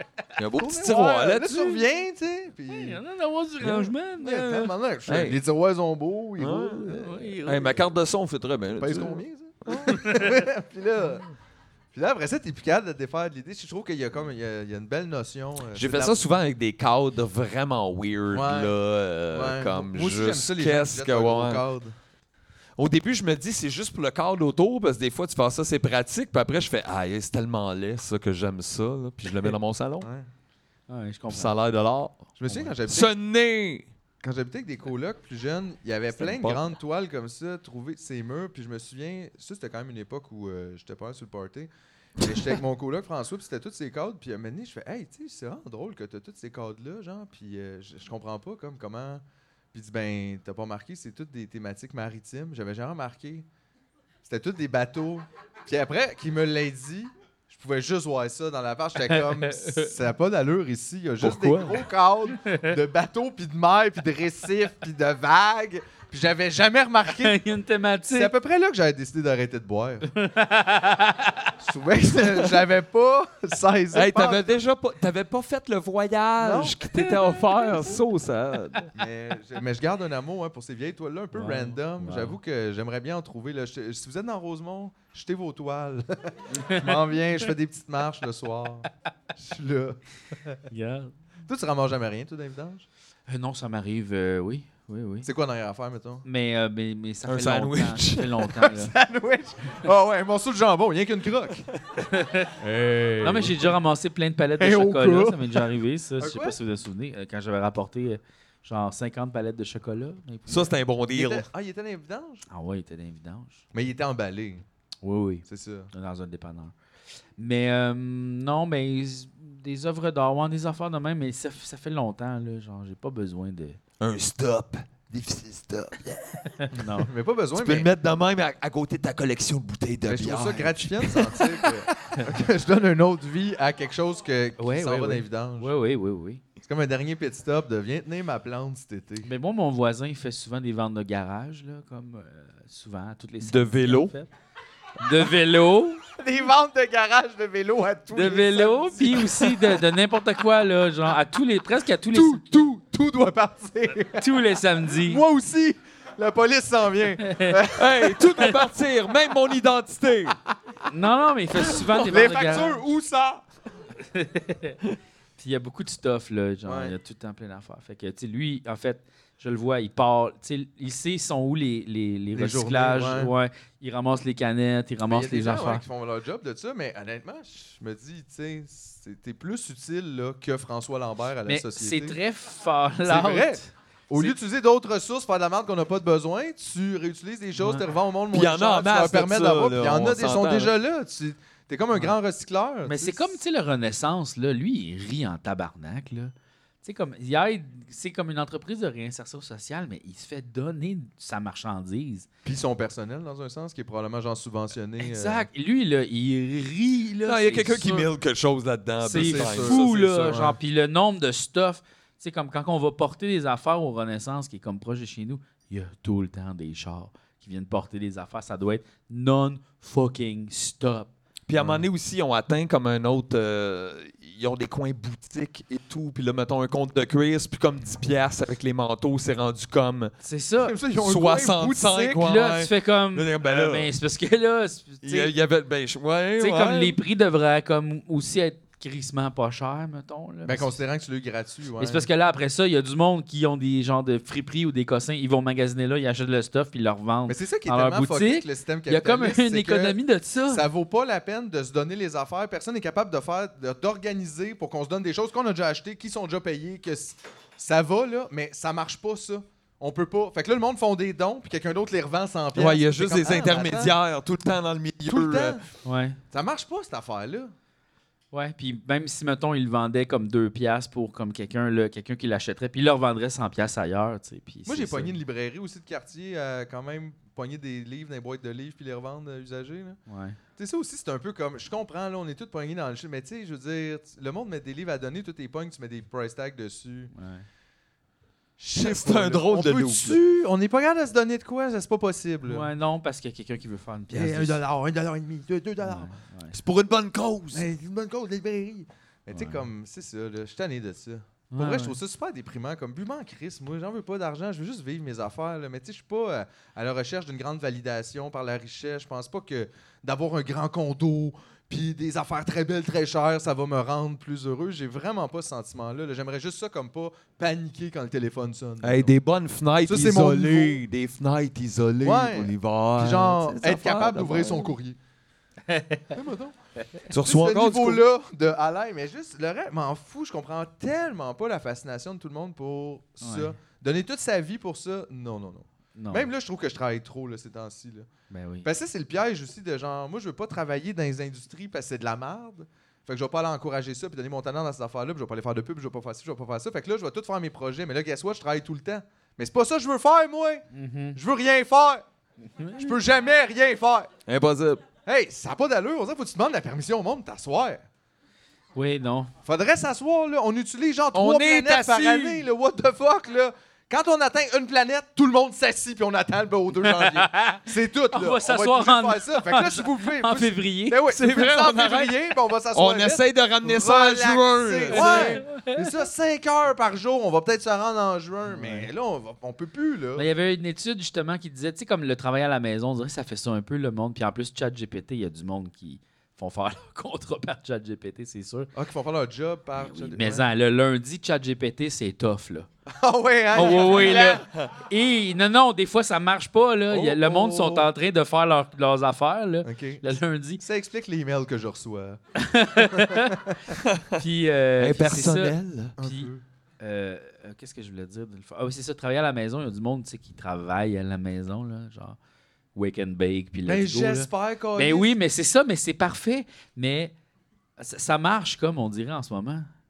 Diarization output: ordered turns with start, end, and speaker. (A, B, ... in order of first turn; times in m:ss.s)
0:00.4-0:01.8 A
0:00.6-0:03.0 B
0:02.7-0:04.7 C
0:03.6-0:07.3 B
0:05.1-0:05.4 A
0:06.4-0:10.0 A
0:06.9-0:07.8 C
0:08.8-0:11.3 B
0:09.9-0:10.3 C
0:11.9-0:16.2 B
0:15.8-0:21.7 A
0:18.3-0:18.7 B
0:19.3-0:22.0 B
0:22.8-0:30.1 A
0:30.0-0:30.3 B
0:30.9-0:31.5 C
0:31.3-0:32.2 A
0:32.4-0:33.1 B
0:32.5-0:32.7 C
0:32.9-0:33.9 A
0:34.2-0:53.5 B
0:36.2-0:36.7 A
0:54.2-1:07.4 B
0:59.0-1:00.0 C
1:01.2-1:01.8 A
1:02.4-1:02.8 C
1:07.1-1:08.3 C
1:08.1-1:10.1 B
1:10.1-1:11.5 C
1:11.6-1:14.4 B
1:13.9-1:18.9 A
1:16.4-1:16.8 B
1:17.0-1:17.9 C
1:19.0-1:30.6 B
1:21.3-1:22.4 C
1:26.5-1:27.0 C
1:30.7-1:31.1 C
1:31.5-1:32.9 B
1:33.3-1:35.3 C
1:35.2-1:36.2 B
1:36.2-1:38.9 C
1:37.3-1:38.6 A
1:38.8-1:41.7 B
1:42.1-1:42.5 C
1:42.6-1:43.7 B
1:43.2-1:50.8 C
1:44.6-1:45.6 B
1:46.2-1:46.6 B
1:50.5-1:51.5 A
1:51.1-1:52.5 B
1:52.5-1:53.6 C
1:53.7-1:54.6 B
1:55.0-1:56.7 C
1:55.5-1:55.9 B
1:57.4-2:03.8 C
2:04.0-2:06.4 A
2:06.5-2:07.1 C
2:06.8-2:07.9 B
2:07.6-2:12.2 A
2:10.0-2:15.7 B
2:14.6-2:16.4 C
2:16.6-2:19.3 B
2:19.2-2:24.3 C
2:23.4-2:24.1 A
2:25.0-2:26.0 C
2:26.2-2:29.8 B
2:28.1-2:32.6 C
2:32.1-2:34.3 B
2:34.2-2:35.2 C
2:34.9-2:38.5 B
2:37.2-2:37.6 C
2:37.8-2:40.4 A
2:40.9-2:42.8 C
2:41.9-2:43.4 B
2:44.0-2:44.8 C
2:45.4-2:55.8 C
2:46.6-2:47.0 B
2:52.3-2:53.3 B
2:55.1-3:02.2 B
3:01.5-3:04.3 C
3:03.1-3:13.4 B
3:07.6-3:07.9 C
3:08.3-3:10.7 A
3:12.8-3:22.3 C
3:22.4-3:25.5 B
3:25.0-3:28.1 C
3:27.3-3:30.4 A
3:29.0-3:41.1 C
3:29.1-3:30.6 B
3:41.5-3:50.1 A
3:41.6-3:41.9 B
3:50.2-3:50.8 C
3:50.6-3:52.2 B
3:51.0-3:53.9 A
3:52.1-3:55.3 C
3:55.0-3:57.0 A
3:56.4-4:00.8 C
4:00.5-4:02.1 B
4:01.8-4:10.7 C
4:07.3-4:10.0 B
4:10.5-4:24.0 B
4:22.6-4:25.6 A
4:25.1-4:25.6 B
4:25.8-4:26.2 C
4:26.3-4:27.5 B
4:28.3-4:35.2 C
4:34.7-4:40.0 B
4:40.1-4:40.4 C
4:40.6-4:47.1 B
4:47.1-4:47.5 C
4:48.6-4:52.7 B
4:48.7-4:50.2 A
4:52.5-4:54.6 C
4:54.1-4:56.1 B
4:55.8-4:56.6 C
4:56.5-4:57.6 A
4:57.5-5:19.1 B
4:59.3-4:59.6 C
5:01.5-5:02.0 C
5:18.8-5:24.6 A
5:19.9-5:20.8 B
5:22.0-5:25.0 B
5:25.7-5:26.2 C
5:26.1-5:26.6 B
5:27.1-5:38.1 B
5:27.1-5:28.0 A
5:33.2-5:33.5 C
5:36.0-5:36.3 C
5:38.3-5:38.7 C
5:38.6-5:52.0 B
5:50.7-5:51.2 C
5:52.6-5:53.0 C
5:52.8-5:54.1 B
5:54.3-5:54.8 A
5:55.1-5:57.8 B
5:58.8-5:59.3 C
5:59.4-6:20.3 B
6:01.1-6:02.4 A
6:06.8-6:11.0 C
6:11.1-6:12.2 A
6:12.7-6:15.4 A
6:14.9-6:15.7 C
6:18.5-6:18.9 C
6:20.2-6:28.7 C
6:28.7-6:30.5 B
6:29.8-6:32.7 C
6:32.9-6:34.4 B
6:33.5-6:40.6 C
6:33.8-6:34.7 A
6:36.9-6:37.9 B
6:39.6-6:40.0 B
6:40.6-6:42.2 B
6:42.4-6:43.5 C
6:42.7-6:43.8 B
6:43.9-6:44.2 A
6:44.2-6:52.2 C
6:44.8-6:46.0 A
6:46.0-6:46.4 B
6:52.8-6:57.1 C
6:53.6-6:55.2 B
6:57.8-6:59.7 C